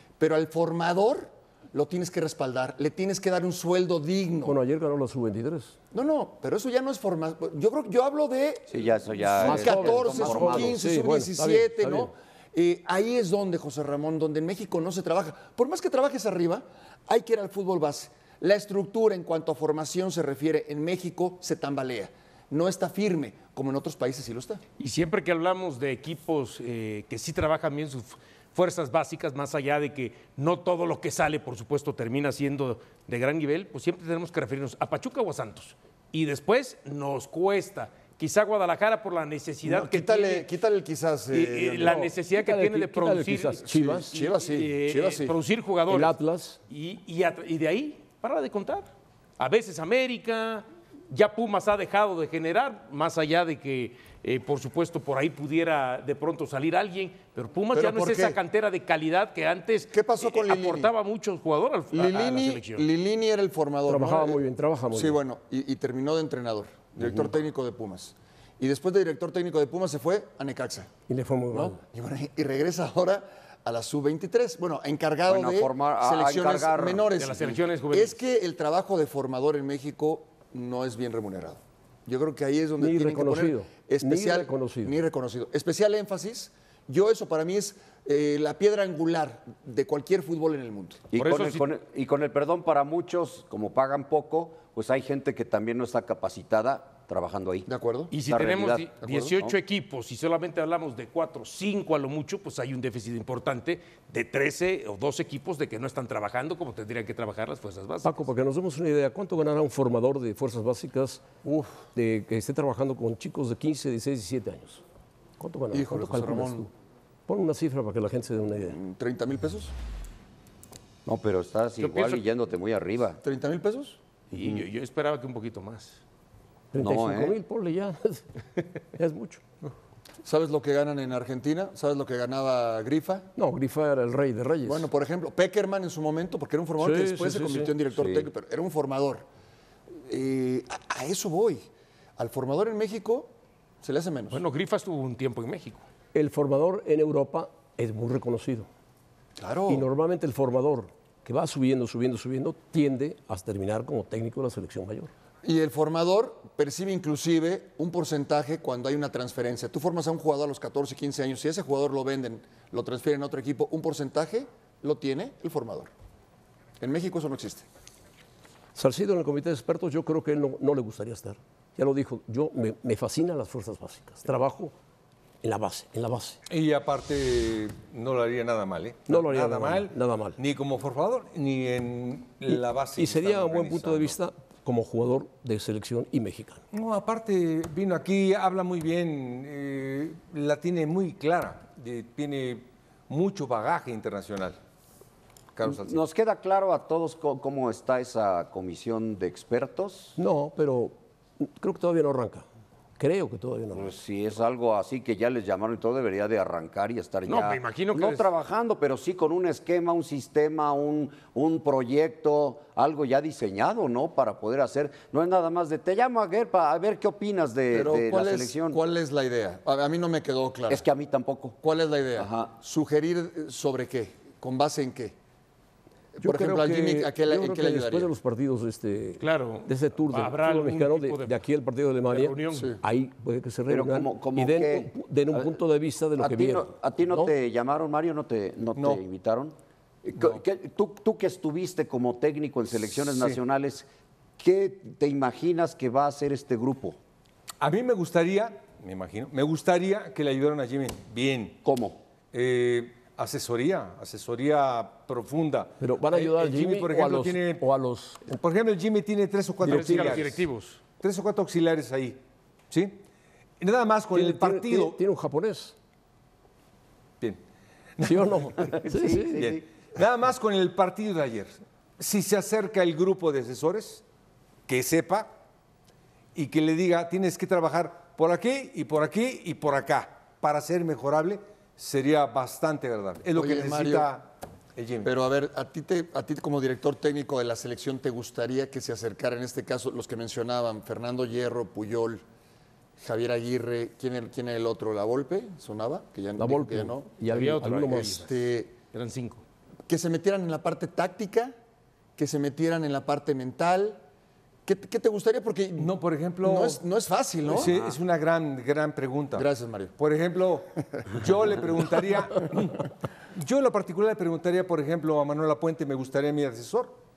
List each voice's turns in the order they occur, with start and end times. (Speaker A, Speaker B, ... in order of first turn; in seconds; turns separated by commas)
Speaker A: 0.2-4.6, Speaker B: 4.4-5.8, Speaker A: 5.9-24.6, Speaker C: 8.7-10.8, Speaker B: 9.4-12.1, Speaker D: 24.8-40.5, Speaker A: 39.6-42.1, Speaker D: 41.3-62.9, Speaker B: 42.3-44.1, Speaker A: 43.6-45.4, Speaker B: 45.9-46.6, Speaker A: 57.7-58.4, Speaker A: 59.9-60.9, Speaker A: 61.9-70.9, Speaker B: 63.9-65.2, Speaker B: 71.1-71.8, Speaker A: 71.5-91.0, Speaker C: 75.3-77.1, Speaker D: 77.1-78.2, Speaker B: 82.8-85.0, Speaker C: 91.1-97.7, Speaker D: 91.2-91.7, Speaker A: 97.7-98.1, Speaker D: 98.1-108.3, Speaker C: 98.2-99.6, Speaker A: 99.0-99.3, Speaker B: 108.0-114.8, Speaker B: 115.4-116.7, Speaker A: 115.7-116.7, Speaker B: 117.3-118.8, Speaker A: 118.6-119.7, Speaker C: 121.1-123.2, Speaker D: 121.8-122.2, Speaker A: 123.2-124.0, Speaker C: 124.3-124.7, Speaker D: 124.3-126.0, Speaker B: 126.7-129.4, Speaker C: 126.8-127.3, Speaker A: 130.2-133.3, Speaker B: 133.4-134.9, Speaker A: 134.7-139.3, Speaker B: 136.8-137.8, Speaker C: 138.0-138.3, Speaker A: 140.1-141.6, Speaker A: 142.2-143.3, Speaker A: 143.8-144.4, Speaker D: 144.3-145.8, Speaker B: 146.1-148.7, Speaker A: 149.4-149.9, Speaker B: 149.7-155.1, Speaker A: 155.4-165.9, Speaker A: 166.8-167.7, Speaker B: 168.8-174.7, Speaker B: 175.4-176.4, Speaker E: 176.5-184.2, Speaker B: 179.1-180.4, Speaker B: 182.5-186.6, Speaker E: 186.7-194.6, Speaker E: 195.6-196.0, Speaker C: 195.6-200.2, Speaker B: 200.2-202.5, Speaker B: 203.0-203.9, Speaker C: 203.7-218.8, Speaker D: 207.3-208.3, Speaker A: 217.7-220.8, Speaker C: 220.7-221.6, Speaker A: 221.6-225.2, Speaker C: 222.2-222.5, Speaker A: 226.2-228.1, Speaker B: 226.2-237.3, Speaker D: 229.2-231.5, Speaker D: 232.1-232.8, Speaker C: 233.7-235.5, Speaker C: 236.2-243.9, Speaker E: 238.8-239.0, Speaker E: 243.0-243.4, Speaker C: 244.4-247.0, Speaker E: 247.6-251.6, Speaker C: 251.6-252.0, Speaker E: 252.3-257.6, Speaker B: 255.8-258.3, Speaker E: 258.3-263.0, Speaker D: 259.6-260.8, Speaker B: 259.6-260.2, Speaker E: 263.6-265.0, Speaker B: 264.1-265.8, Speaker E: 268.0-268.8, Speaker B: 268.0-269.4, Speaker C: 268.8-269.6, Speaker E: 269.3-274.0, Speaker E: 274.7-275.3, Speaker E: 276.4-285.1, Speaker A: 283.4-284.1, Speaker A: 285.0-292.2, Speaker A: 293.0-298.7, Speaker B: 296.4-298.2, Speaker D: 297.2-298.4, Speaker D: 298.9-299.4, Speaker A: 299.9-301.5, Speaker A: 302.2-304.0, Speaker A: 304.7-307.7, Speaker E: 305.8-306.8, Speaker E: 307.4-309.5, Speaker A: 309.3-309.9, Speaker E: 310.0-317.0